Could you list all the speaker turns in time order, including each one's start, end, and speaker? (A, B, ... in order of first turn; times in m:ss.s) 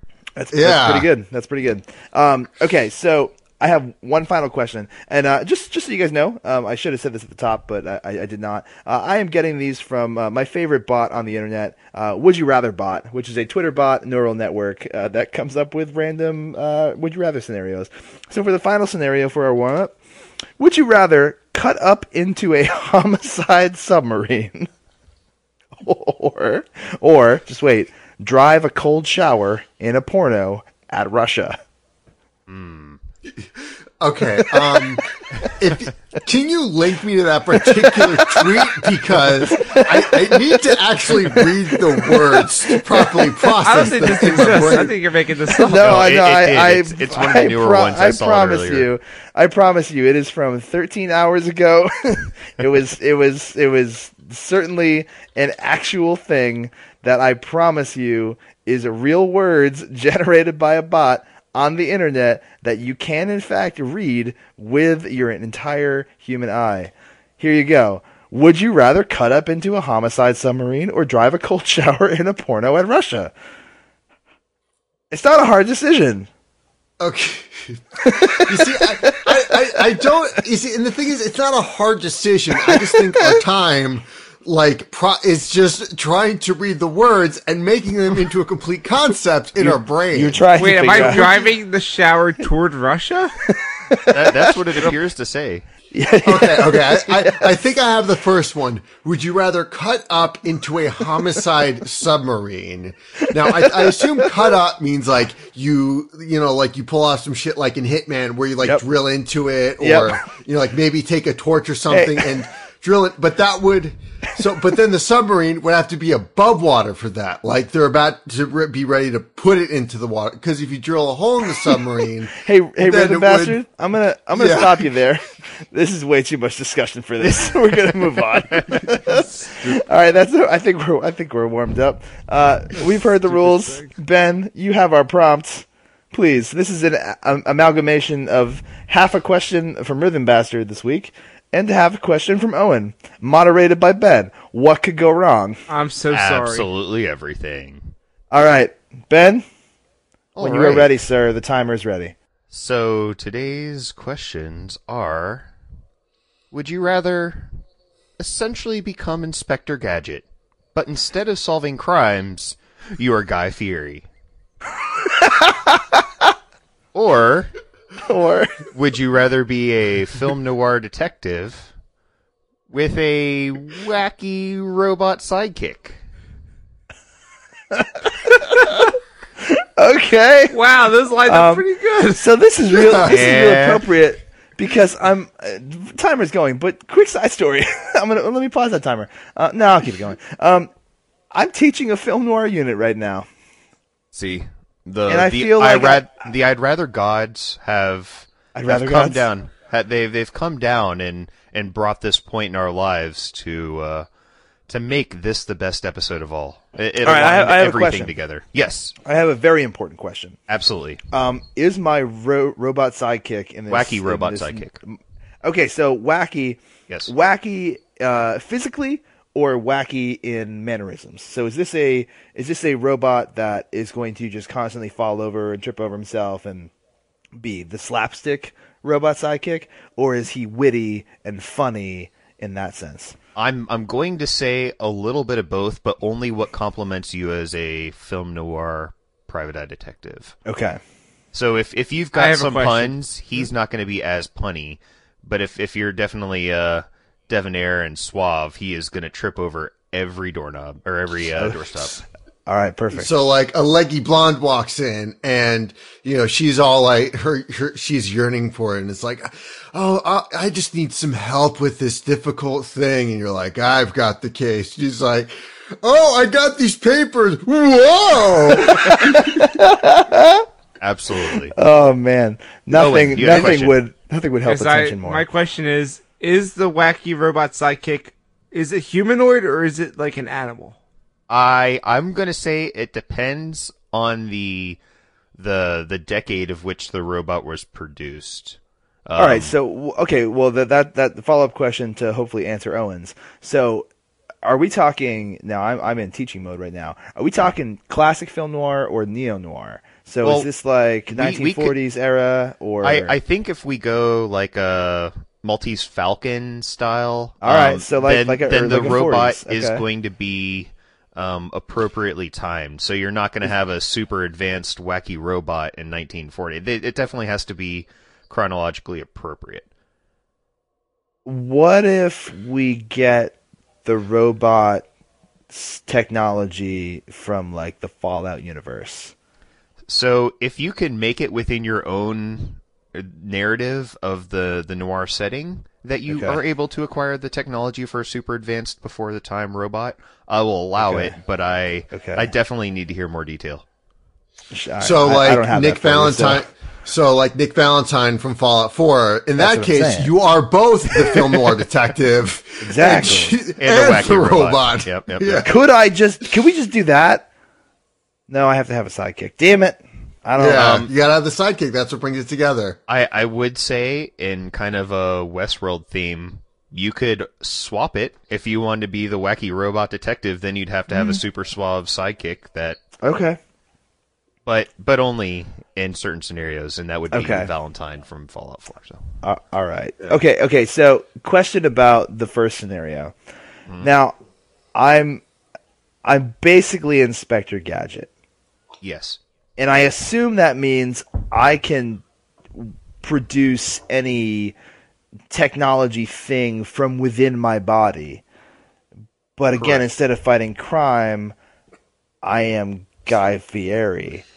0:00.4-0:19.9 A
0:00.5-0:01.1 B
0:20.6-0:24.7 A
0:25.8-0:31.6 A
0:32.5-0:33.0 C
0:34.0-0:45.0 B
0:37.6-0:38.5 A
0:39.1-0:43.4 A
0:43.6-0:46.0 D
0:45.6-1:13.3 A
0:45.7-0:48.9 C
1:15.1-1:16.3 A
1:17.0-1:30.4 B
1:18.0-1:19.5 A
1:22.6-1:23.4 A
1:29.6-1:31.4 A
1:30.6-1:33.4 D
1:33.5-1:34.9 A
1:34.1-1:35.6 C
1:35.9-1:37.5 A
1:36.2-2:03.6 B
1:43.6-1:44.2 A
1:49.8-1:50.2 A
1:51.9-1:52.3 A
2:02.3-2:25.6 A
2:04.3-2:04.9 B
2:07.2-2:09.8 C
2:13.4-2:13.9 D
2:25.7-2:26.7 D
2:26.1-2:27.9 C
2:28.3-2:29.4 A
2:30.4-2:30.9 C
2:30.4-2:32.1 A
2:32.5-2:35.5 C
2:36.5-2:37.5 C
2:38.2-2:44.1 C
2:45.0-2:46.0 A
2:46.9-2:47.5 C
2:48.0-2:48.6 A
2:48.7-2:51.7 C
2:52.7-2:56.0 C
2:57.7-3:00.6 A
3:00.5-3:02.2 D
3:01.3-3:10.7 A
3:02.8-3:03.1 B
3:03.0-3:03.8 C
3:11.3-3:13.3 A
3:14.1-3:24.1 C
3:15.1-3:16.0 A
3:18.6-3:19.3 A
3:24.7-3:29.0 C
3:27.0-3:28.1 A
3:29.0-3:30.4 A
3:30.5-3:31.0 C
3:31.1-3:46.7 A
3:33.7-3:34.8 C
3:47.4-3:53.2 A
3:53.4-4:00.4 C
4:00.4-4:00.8 A
4:01.3-4:12.0 C
4:02.2-4:03.0 D
4:11.4-4:11.7 A
4:12.5-4:13.1 A
4:12.9-4:29.4 B
4:28.6-4:30.4 A
4:30.8-4:31.6 C
4:31.5-4:35.2 A
4:32.7-4:33.8 C
4:34.4-4:40.8 D
4:41.3-4:44.8 C
4:45.4-4:49.5 C
4:49.2-4:53.9 A
4:54.4-5:03.2 A
5:00.2-5:00.5 C
5:01.1-5:01.8 C
5:02.8-5:19.7 C
5:07.4-5:09.8 A
5:21.3-5:24.8 A
5:25.5-5:29.1 A
5:29.9-5:43.6 C
5:36.1-5:36.4 A
5:40.8-5:41.2 A
5:41.9-5:42.2 A
5:44.5-5:46.5 A
5:44.8-5:55.5 B
5:49.4-5:50.1 A
5:52.6-5:53.4 A
5:53.6-5:55.5 C
5:55.4-5:57.3 A
5:58.3-6:00.8 A
6:00.4-6:02.8 B
6:00.6-6:00.9 C
6:02.9-6:12.8 C
6:13.0-6:13.4 A
6:14.4-6:19.0 C
6:17.1-6:17.5 A
6:19.2-6:23.1 A
6:23.8-6:24.2 A
6:24.8-6:25.2 A
6:26.0-6:28.1 A
6:28.8-6:29.2 C
6:29.6-6:32.0 A
6:32.6-6:34.6 A
6:35.3-6:38.2 A
6:39.4-6:41.3 A
6:42.2-6:44.2 A